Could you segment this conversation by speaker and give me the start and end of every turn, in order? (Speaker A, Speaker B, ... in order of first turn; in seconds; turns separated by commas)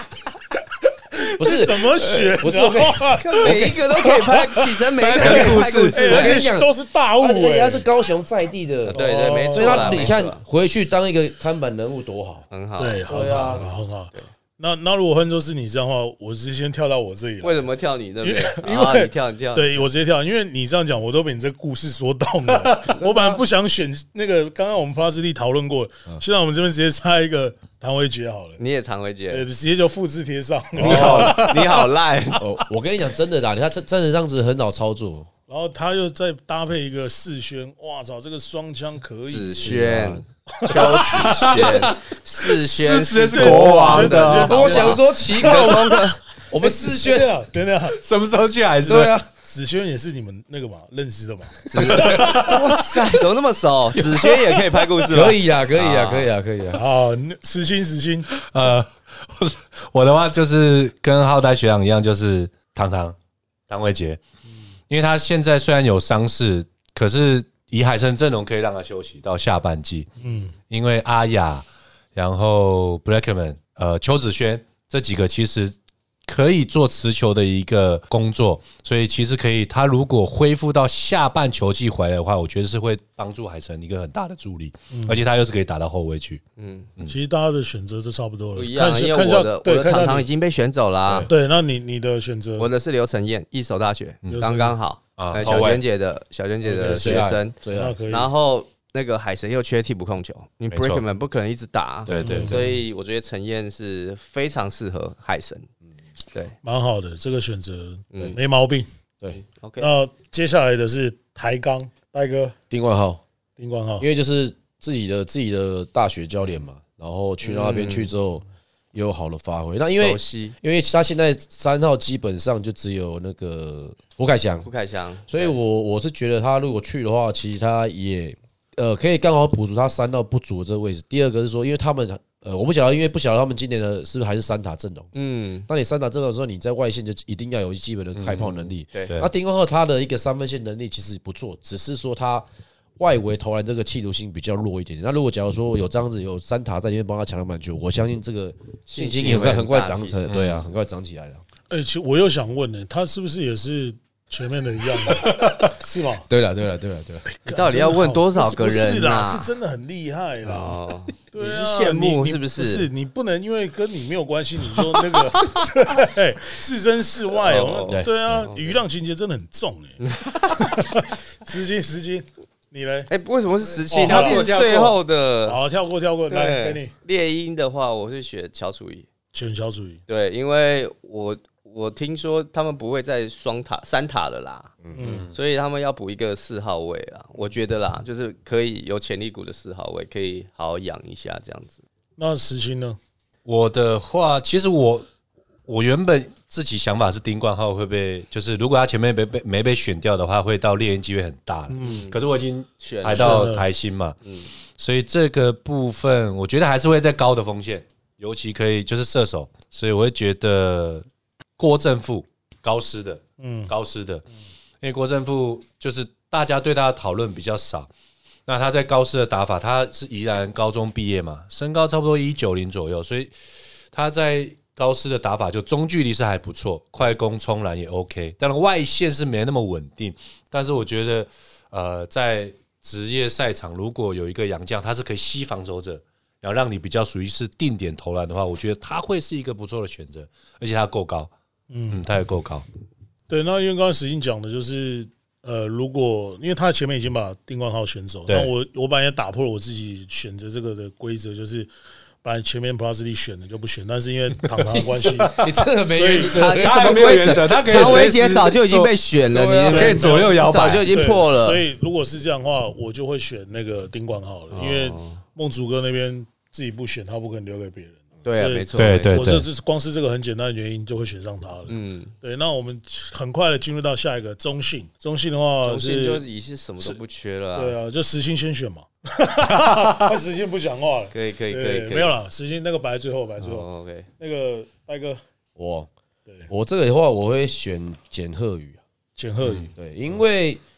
Speaker A: 1.1-7.8, Speaker B: 1.4-3.8, Speaker C: 3.2-6.4, Speaker D: 5.0-6.2, Speaker B: 5.2-5.5, Speaker B: 6.0-12.4, Speaker A: 8.9-10.2, Speaker C: 8.9-10.4, Speaker C: 12.5-14.3, Speaker A: 12.8-17.7, Speaker B: 13.1-13.6, Speaker C: 17.4-19.8, Speaker A: 18.2-28.6, Speaker B: 22.9-23.4, Speaker C: 28.6-29.4, Speaker A: 29.3-31.9, Speaker B: 30.8-31.5, Speaker C: 30.8-32.4, Speaker B: 32.3-35.3, Speaker A: 35.5-39.8, Speaker C: 39.3-46.2, Speaker B: 39.6-40.2, Speaker A: 40.5-41.6, Speaker D: 41.1-44.9, Speaker A: 43.3-45.7, Speaker B: 44.2-47.3, Speaker A: 46.6-48.0, Speaker D: 47.9-49.1, Speaker A: 48.7-52.8, Speaker B: 48.8-49.3, Speaker C: 51.7-56.3, Speaker B: 51.8-52.5, Speaker B: 54.1-54.4, Speaker B: 55.1-56.8, Speaker A: 56.7-58.3, Speaker D: 58.3-63.1, Speaker D: 63.7-64.2, Speaker D: 64.9-70.1, Speaker A: 70.2-70.5, Speaker D: 70.7-75.7, Speaker D: 76.3-86.4, Speaker A: 84.9-85.2, Speaker C: 86.6-86.9, Speaker A: 87.0-90.3, Speaker C: 88.5-91.3, Speaker B: 91.0-91.3, Speaker A: 91.3-92.7, Speaker C: 92.6-105.7, Speaker A: 94.3-94.8, Speaker D: 95.2-95.8, Speaker B: 96.7-98.0, Speaker A: 96.7-98.3, Speaker D: 100.7-101.0, Speaker D: 102.1-102.7, Speaker A: 102.2-102.6, Speaker A: 106.6-108.9, Speaker C: 108.1-108.4, Speaker C: 109.6-109.9, Speaker A: 109.8-112.5, Speaker B: 112.7-113.2, Speaker A: 113.6-114.1, Speaker B: 114.0-124.7, Speaker C: 117.4-118.1, Speaker C: 119.9-120.6, Speaker C: 124.6-125.5, Speaker B: 125.3-135.1, Speaker C: 135.1-135.7, Speaker B: 135.7-142.4, Speaker D: 138.2-139.3, Speaker B: 143.0-151.4, Speaker C: 148.9-150.3, Speaker D: 150.3-150.6, Speaker A: 151.7-156.3, Speaker B: 156.3-157.2, Speaker A: 157.2-160.8, Speaker C: 157.5-159.5, Speaker C: 160.4-162.9, Speaker A: 161.3-173.1, Speaker C: 167.4-168.8, Speaker B: 167.9-168.4, Speaker C: 170.0-170.7, Speaker C: 173.1-175.6, Speaker A: 173.9-174.5, Speaker D: 173.9-174.9, Speaker A: 175.4-176.9, Speaker C: 176.3-179.1, Speaker A: 179.3-180.0, Speaker C: 180.1-184.8, Speaker B: 184.8-185.2, Speaker A: 184.9-185.3, Speaker D: 185.0-185.3, Speaker C: 185.3-191.8, Speaker A: 192.2-193.0, Speaker D: 193.4-195.1, Speaker D: 195.7-204.2, Speaker A: 201.7-202.0, Speaker C: 201.8-202.2, Speaker C: 202.8-203.5, Speaker A: 203.1-203.7, Speaker C: 204.2-204.5, Speaker D: 204.8-211.0, Speaker D: 211.6-214.2, Speaker A: 213.4-213.7, Speaker D: 214.8-217.9, Speaker D: 218.5-223.3, Speaker D: 223.9-241.3, Speaker A: 241.7-242.0, Speaker D: 241.9-242.6, Speaker A: 243.3-251.7, Speaker A: 252.2-256.4, Speaker B: 254.7-258.0, Speaker D: 255.2-258.9, Speaker C: 256.1-261.6, Speaker B: 259.3-259.6, Speaker D: 259.5-260.9, Speaker A: 259.7-276.2, Speaker C: 264.5-265.2, Speaker C: 268.2-269.4, Speaker D: 268.8-269.5, Speaker C: 271.7-272.1, Speaker C: 275.6-277.8, Speaker A: 277.5-285.2, Speaker D: 279.6-280.1, Speaker C: 281.1-282.1, Speaker C: 283.4-284.1, Speaker B: 285.6-285.9, Speaker B: 286.5-288.8, Speaker A: 289.1-289.7, Speaker B: 289.7-290.6